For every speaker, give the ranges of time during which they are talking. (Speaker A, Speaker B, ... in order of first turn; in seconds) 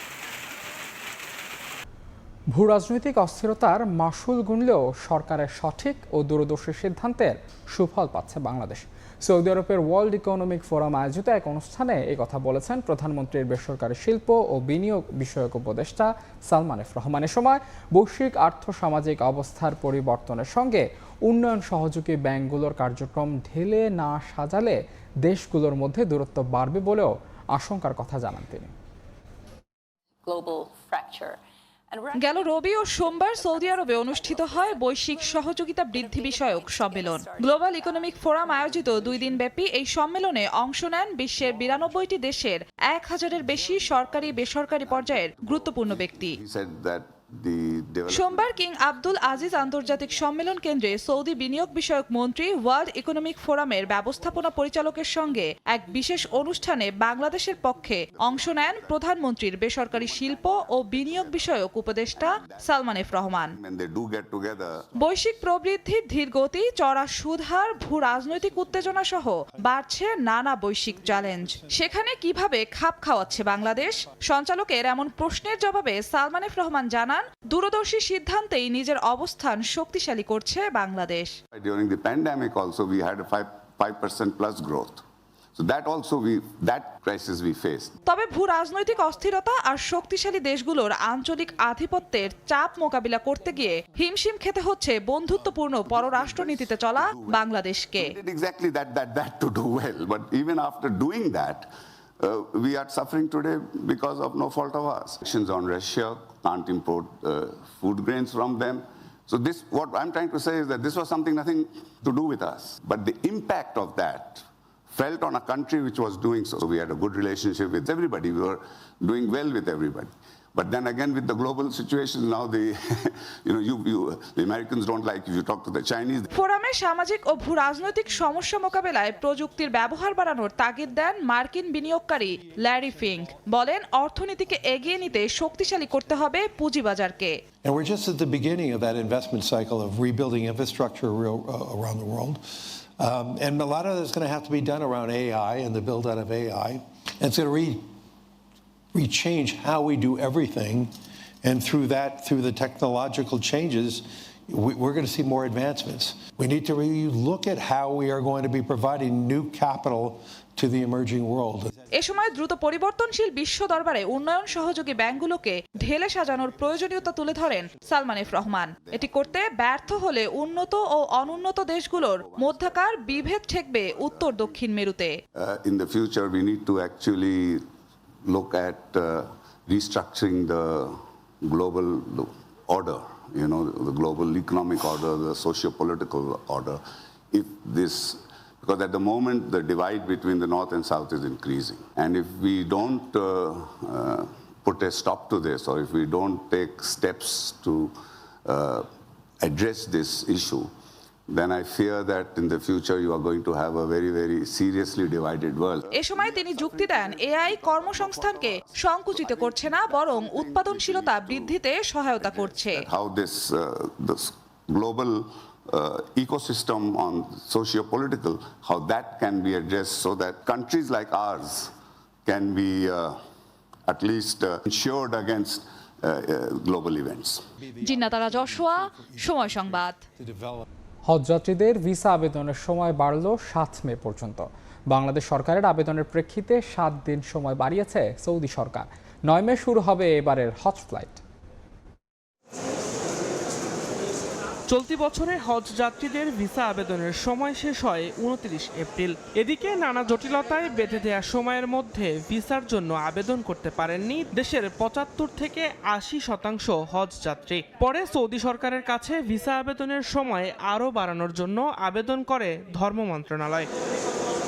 Speaker A: 2.5-28.7, 231.1-241.2
Speaker B: 30.3-31.4, 36.1-37.4
Speaker C: 32.2-46.4, 48.1-63.5, 65.0-81.4, 88.1-98.1, 126.3-137.3, 161.9-175.1, 205.9-212.8, 227.8-230.0
Speaker D: 44.9-48.5, 58.4-58.9, 59.9-61.4, 62.2-62.6, 63.6-64.9, 81.5-85.0, 85.5-87.9, 96.2-97.4, 98.0-101.7, 102.2-126.3, 172.2-172.7, 175.4-177.7, 178.2-198.9, 199.4-200.7, 201.3-211.5, 212.2-221.7, 222.2-223.2, 223.9-227.4
Speaker E: 137.6-142.4, 143.0-147.8, 148.9-150.9, 151.4-161.7, 227.6-230.6
Speaker F: 244.7-263.7